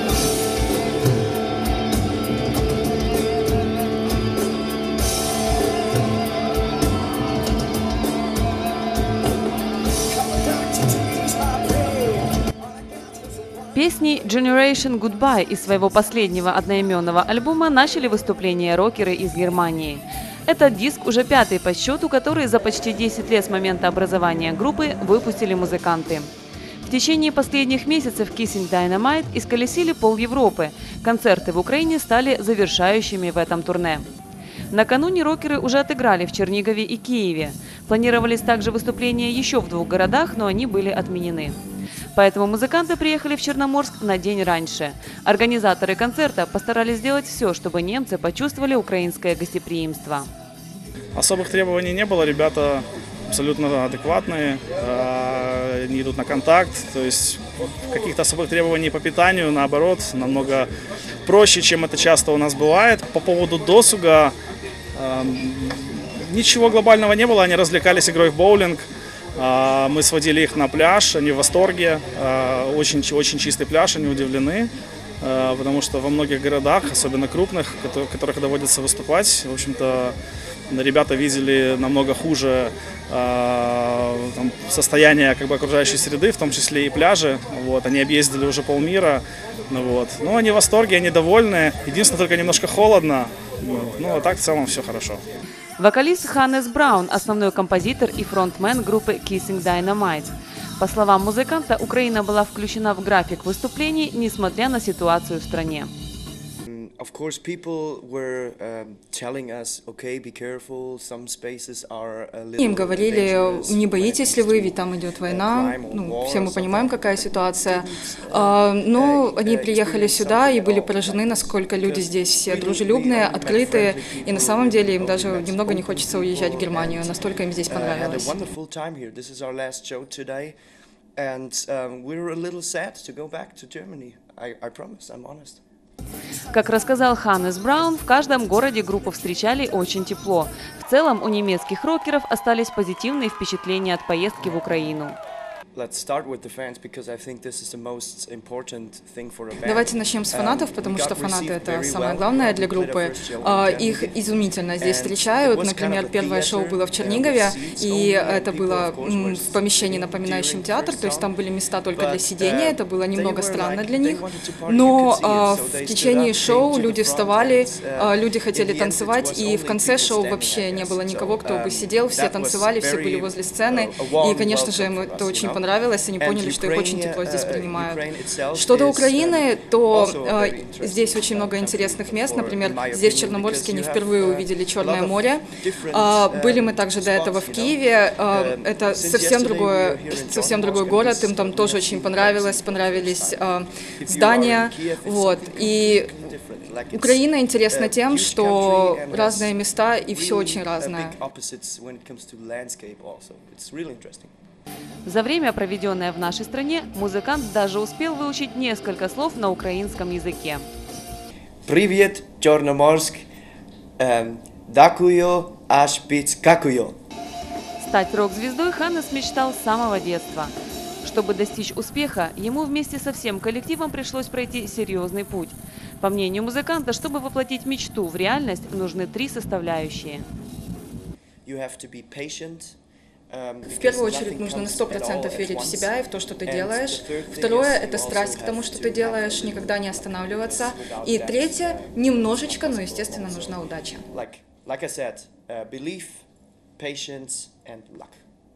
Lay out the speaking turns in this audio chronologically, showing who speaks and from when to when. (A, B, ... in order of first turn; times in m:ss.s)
0:13.7-0:26.3 A
0:26.8-0:34.0 A
0:34.7-0:41.6 A
0:42.1-0:50.3 A
0:51.1-1:00.7 B
1:01.2-1:04.3 B
1:04.9-1:08.8 B
1:09.4-1:14.7 B
1:15.2-1:20.2 B
1:20.7-1:35.2 B
1:35.8-1:45.9 A
1:46.6-2:10.6 C
1:52.6-2:08.3 D
2:11.2-2:15.6 C
2:16.5-2:25.2 A
2:25.7-2:41.3 C
2:29.6-2:58.0 D
2:41.9-2:55.6 C
2:56.2-3:19.5 C
2:58.5-3:16.2 D
3:16.9-3:21.2 D
3:20.1-3:24.3 C
3:25.0-3:30.7 A
3:31.6-3:33.2 C
3:34.0-3:37.0 C
3:37.8-3:50.3 A
3:51.4-3:52.8 C
3:53.3-3:55.9 C
3:53.7-4:04.0 D
3:56.4-4:06.2 C
4:06.8-4:08.2 C